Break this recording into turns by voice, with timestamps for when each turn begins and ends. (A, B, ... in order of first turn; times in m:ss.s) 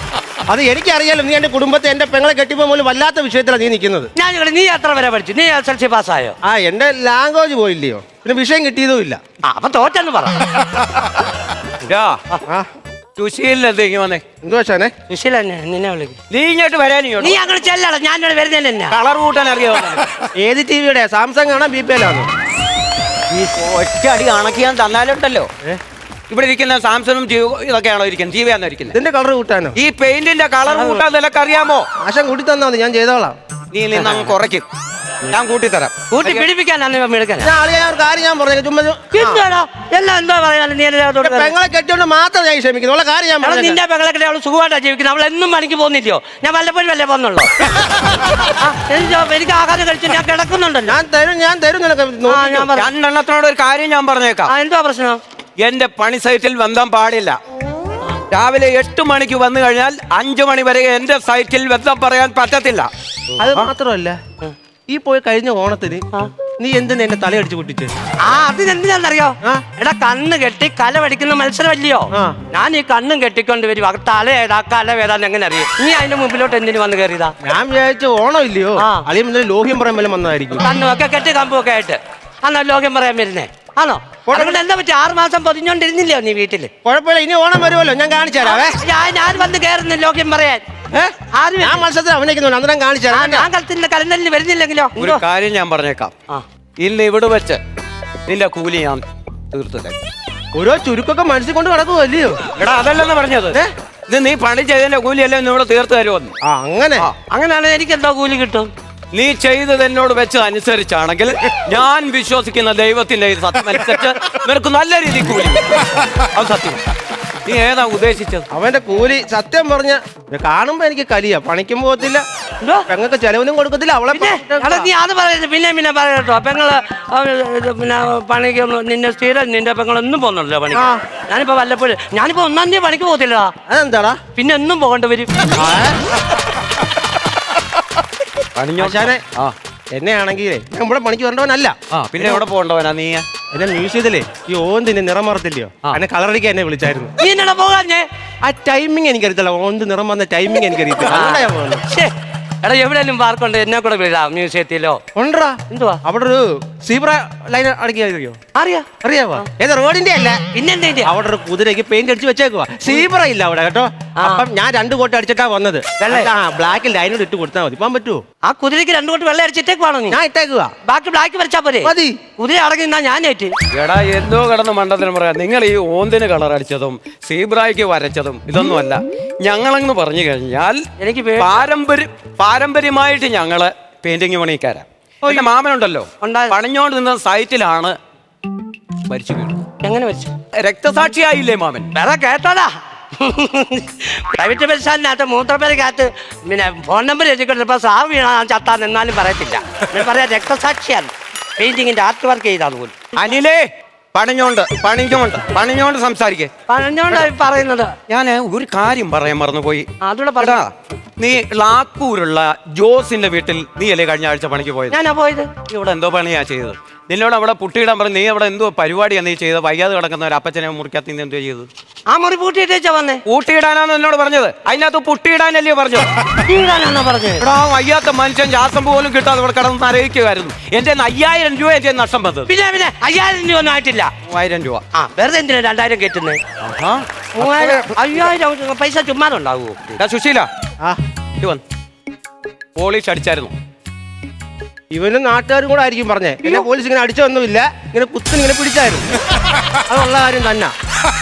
0:00.5-0:04.1 A
0:04.2-0:06.4 B
0:06.4-0:09.2 A
0:09.4-0:10.5 B
0:11.8-0:12.2 C
0:13.2-0:14.2 C
0:14.4-0:14.9 A
0:15.1-0:16.2 B
0:16.3-0:17.4 C
0:17.2-0:19.0 B
0:18.9-0:20.1 C
0:20.4-0:22.3 A
0:23.3-0:25.5 C
0:26.3-0:29.0 C
0:28.9-0:29.8 A
0:29.8-0:31.9 C
0:30.7-0:31.0 B
0:32.0-0:33.4 A
0:33.7-0:34.6 C
0:35.2-0:36.4 C
0:36.1-0:37.5 B
0:37.4-0:39.4 A
0:39.1-0:41.5 B
0:41.2-0:43.8 A
0:43.4-0:47.5 B
0:48.4-0:51.0 B
0:50.9-0:52.7 A
0:52.3-0:52.9 B
0:52.8-0:54.5 C
0:54.5-0:55.2 B
0:55.6-0:57.4 C
0:58.3-1:02.9 C
1:03.4-1:04.2 A
1:03.4-1:03.7 C
1:04.9-1:06.0 A
1:06.6-1:07.9 A
1:08.2-1:17.3 B
1:12.1-1:12.4 A
1:17.4-1:20.6 A
1:18.8-1:19.1 B
1:20.6-1:26.7 B
1:24.3-1:24.6 A
1:26.8-1:28.8 A
1:28.4-1:30.6 B
1:30.9-1:33.5 A
1:31.3-1:31.8 B
1:33.1-1:35.2 B
1:35.0-1:36.1 C
1:36.8-1:37.6 C
1:38.3-1:40.0 C
1:40.5-1:42.4 A
1:42.5-1:46.3 C
1:46.4-1:47.1 A
1:47.3-1:48.7 B
1:49.1-1:56.8 C
1:57.4-1:58.5 C
1:58.5-2:02.2 A
2:02.6-2:02.9 B
2:02.9-2:04.9 A
2:04.1-2:13.5 B
2:10.7-2:11.0 A
2:13.7-2:14.2 A
2:14.4-2:15.3 B
2:15.5-2:16.0 A
2:18.6-2:19.5 C
2:18.8-2:19.2 A
2:19.9-2:22.4 A
2:21.9-2:23.2 C
2:23.5-2:27.1 A
2:27.2-2:28.1 B
2:28.4-2:31.8 A
2:31.1-2:32.1 B
2:32.6-2:35.0 B
2:35.2-2:38.4 A
2:35.7-2:36.0 B
2:38.5-2:38.9 B
2:39.0-2:40.4 A
2:40.5-2:41.1 B
2:41.0-2:48.2 A
2:44.2-2:44.5 B
2:46.0-2:46.3 B
2:48.4-2:50.2 B
2:50.1-2:50.7 A
2:50.8-2:53.5 B
2:51.8-2:52.2 A
2:53.7-3:00.8 C
3:01.0-3:01.6 B
3:01.4-3:08.0 C
3:06.2-3:06.6 B
3:09.1-3:09.6 C
3:09.8-3:10.3 B
3:10.6-3:11.9 C
3:11.9-3:23.0 B
3:23.2-3:23.6 C
3:24.1-3:26.5 C
3:26.7-3:28.0 B
3:28.1-3:29.9 C
3:30.0-3:30.6 B
3:30.4-3:35.0 C
3:34.9-3:35.5 B
3:35.6-3:41.7 C
3:42.1-3:43.2 B
3:43.3-3:46.1 C
3:46.4-3:47.5 B
3:47.4-3:52.5 C
3:52.5-3:54.1 B
3:54.3-3:54.8 C
3:54.9-3:56.4 B
3:56.6-3:57.0 C
3:57.4-3:59.9 B
3:57.4-3:58.1 A
4:00.0-4:00.5 C
4:02.8-4:03.5 C
4:04.9-4:09.1 A
4:09.9-4:10.7 A